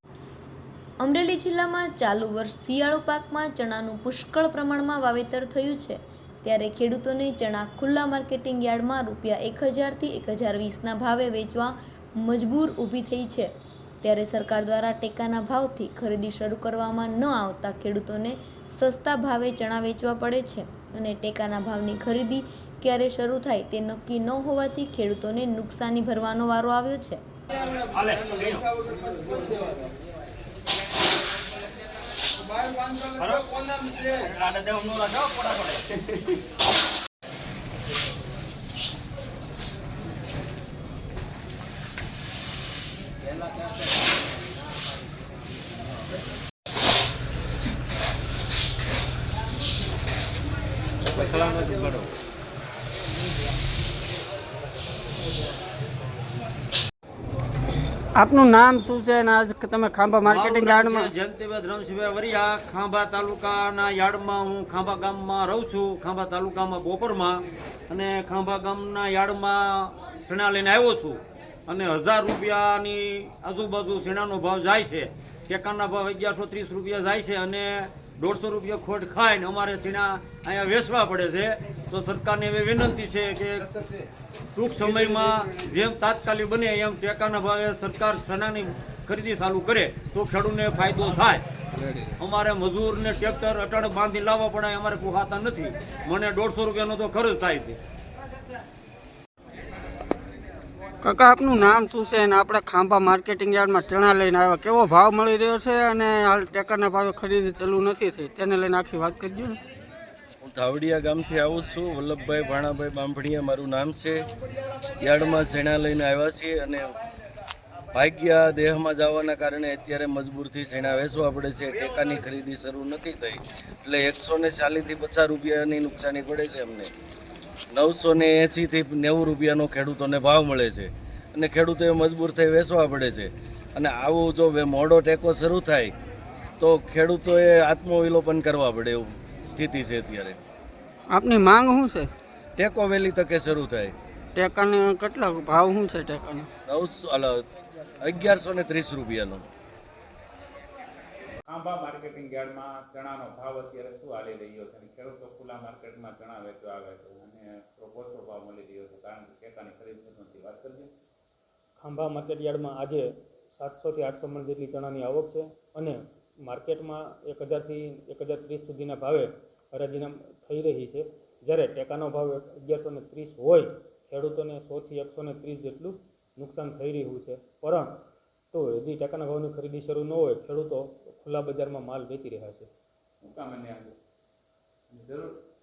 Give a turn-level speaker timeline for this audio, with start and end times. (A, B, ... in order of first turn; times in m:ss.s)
0:01.0-0:13.5 A
0:14.0-0:27.2 A
0:28.0-0:28.4 B
0:33.9-0:35.4 B
0:51.2-0:51.9 C
0:58.1-1:01.1 D
1:00.2-1:23.8 B
1:24.6-1:31.4 B
1:32.2-1:37.8 B
1:41.0-1:49.6 D
1:50.4-1:54.3 C
1:55.0-1:57.0 C
1:57.9-2:06.9 C
2:07.7-2:15.9 C
2:16.6-2:20.4 C
2:21.1-2:22.1 D
2:22.6-2:23.9 C
2:24.4-2:26.5 D
2:26.7-2:27.4 C
2:28.0-2:29.4 C
2:31.5-2:40.9 E
2:41.8-2:57.9 F
2:58.5-3:02.7 F
3:03.2-3:03.9 E
3:04.9-3:05.4 E